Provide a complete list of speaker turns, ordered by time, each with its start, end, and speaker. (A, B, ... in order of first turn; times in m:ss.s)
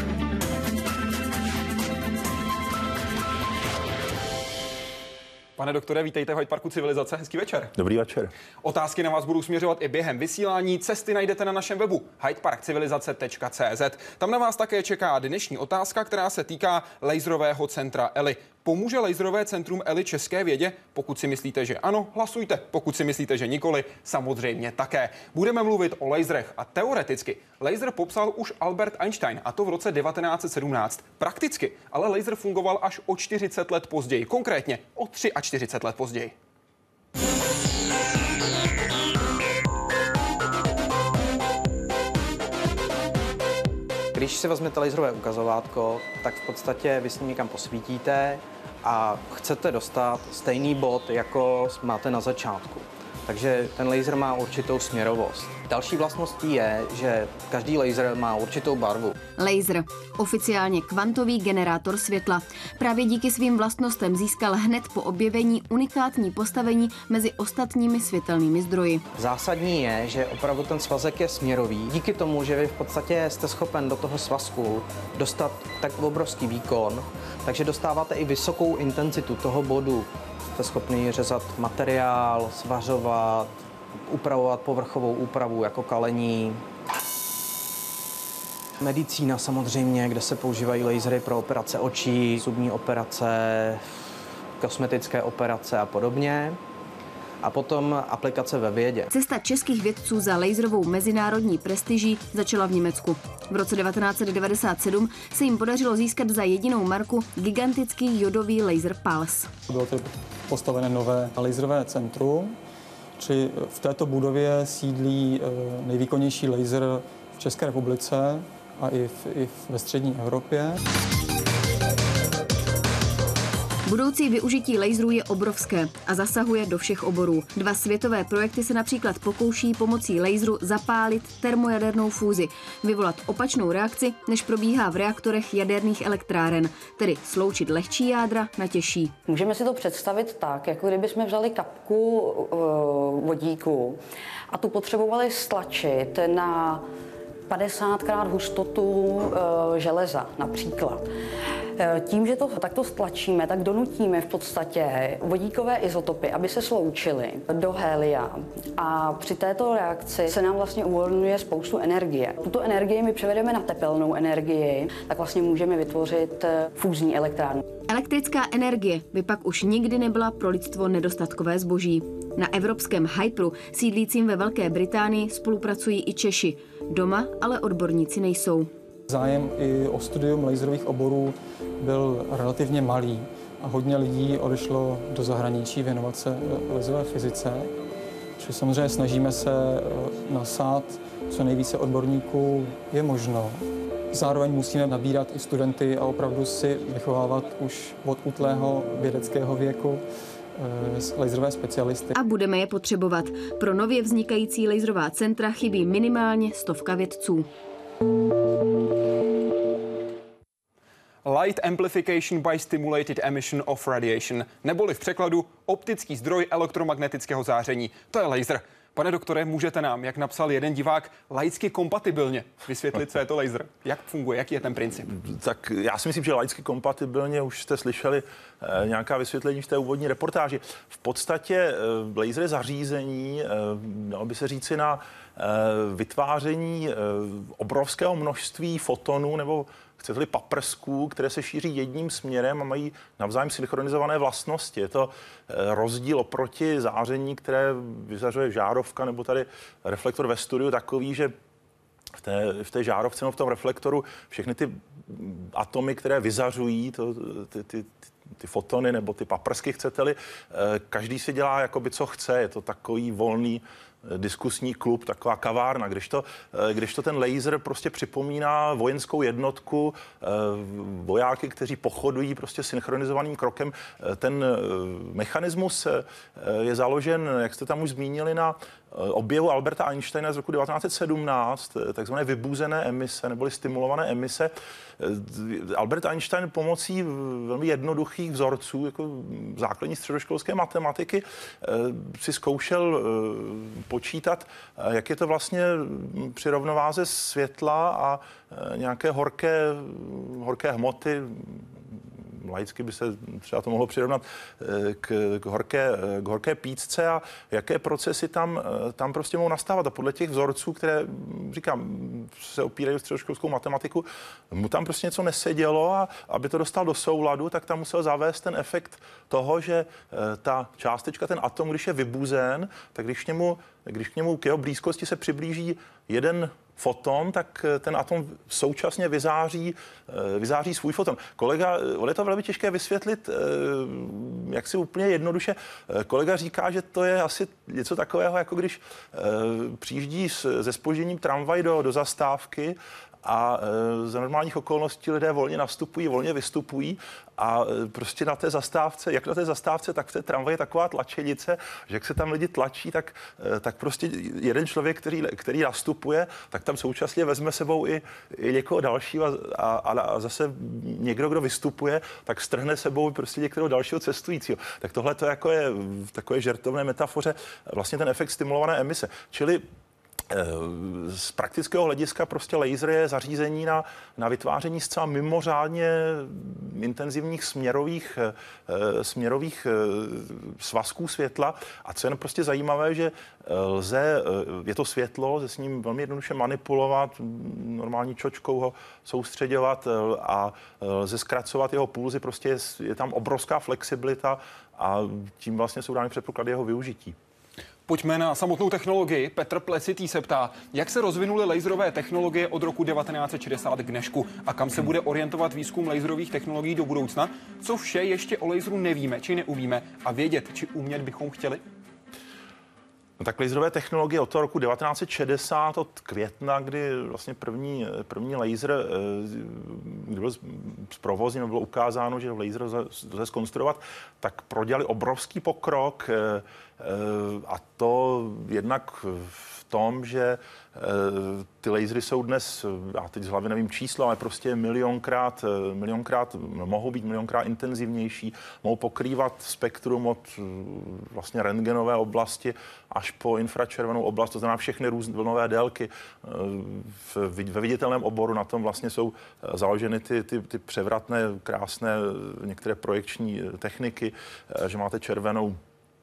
0:05.6-0:07.7 A
0:07.8-0:08.3 B
0:08.6-0:36.3 A
0:44.1-0:59.2 C
0:59.4-1:09.0 D
1:09.2-1:23.5 C
1:24.1-1:26.6 C
1:28.8-1:33.8 C
1:34.6-1:36.6 C
1:37.4-1:39.1 C
1:39.1-1:49.5 D
1:49.7-1:52.6 E
1:53.2-2:00.8 E
2:03.9-2:19.1 D
2:19.3-2:26.8 F
2:27.5-2:31.1 F
2:31.8-2:47.6 F
2:47.9-2:58.7 D
2:59.1-3:07.7 E
3:08.4-3:22.2 E
3:22.2-3:27.5 D
3:31.2-3:45.1 A
3:45.1-4:11.3 B
4:12.2-6:09.6 B
6:10.3-6:37.2 B
6:37.9-6:51.6 A
6:53.2-7:35.6 B